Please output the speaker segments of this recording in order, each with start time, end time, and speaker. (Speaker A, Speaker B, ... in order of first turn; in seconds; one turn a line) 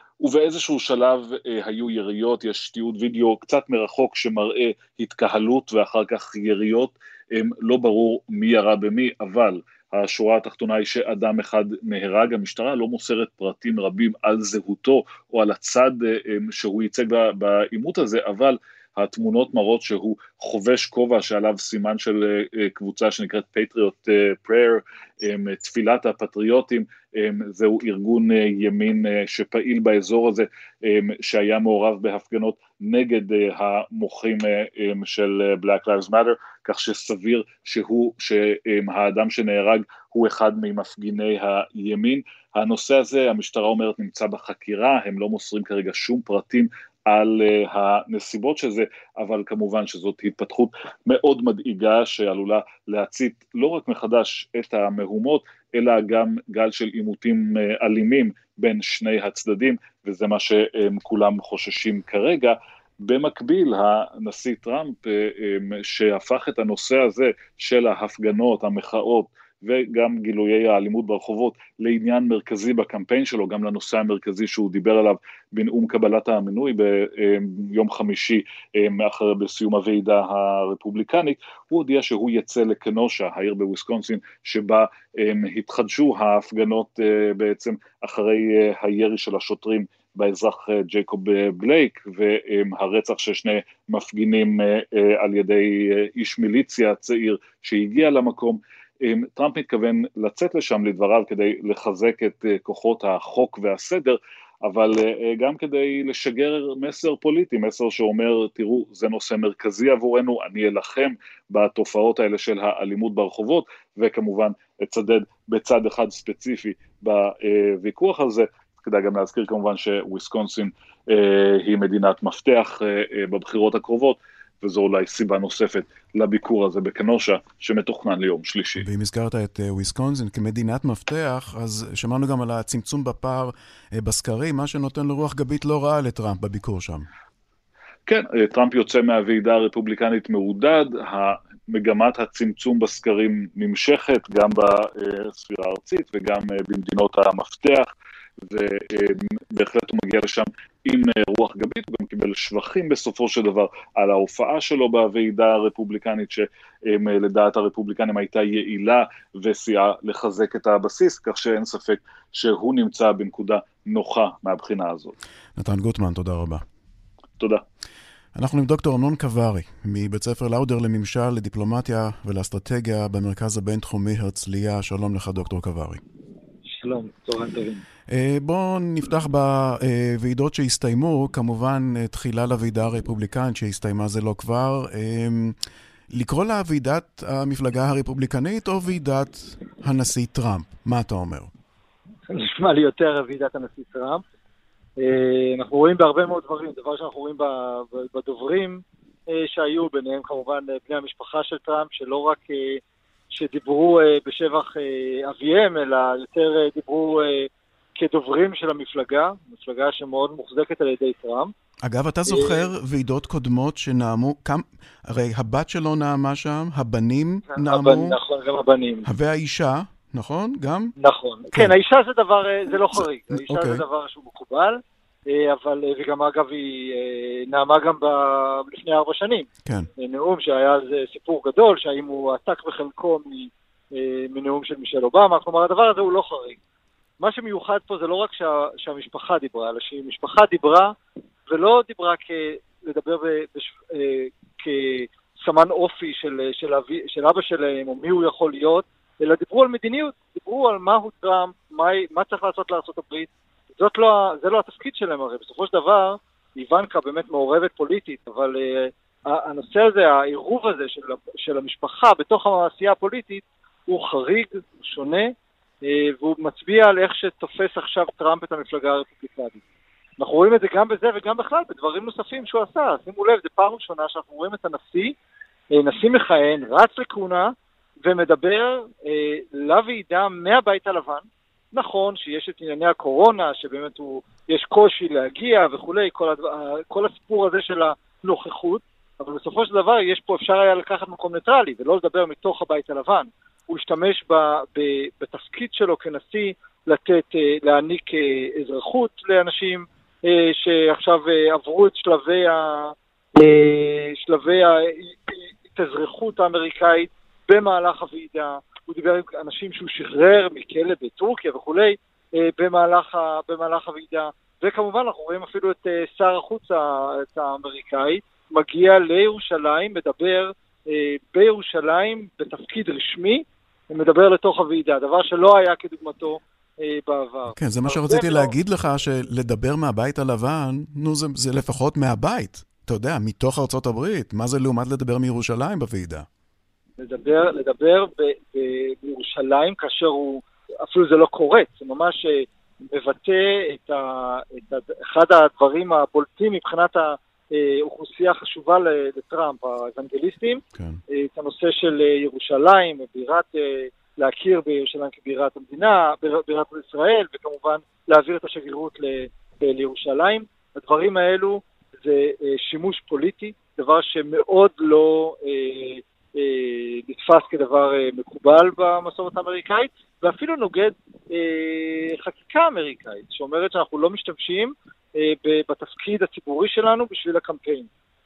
Speaker A: 0.2-128.9
Speaker B: 128.8-137.1
Speaker A: 138.1-147.9
Speaker A: 148.5-165.2
Speaker B: 165.6-166.6
Speaker B: 168.3-176.0
Speaker C: 176.7-177.8
Speaker B: 178.1-185.6
Speaker B: 186.1-191.5
Speaker C: 192.3-194.2
Speaker C: 195.0-211.5
Speaker B: 211.8-218.2
Speaker C: 212.3-212.7
Speaker C: 217.5-219.1
Speaker B: 219.1-220.9
Speaker C: 221.0-229.5
Speaker B: 222.9-223.8
Speaker C: 230.0-236.6
Speaker C: 237.2-241.0
Speaker C: 241.5-269.6
Speaker C: 270.2-275.2
Speaker C: 275.7-328.5
Speaker B: 327.5-336.3
Speaker C: 337.0-377.9
Speaker B: 350.8-351.0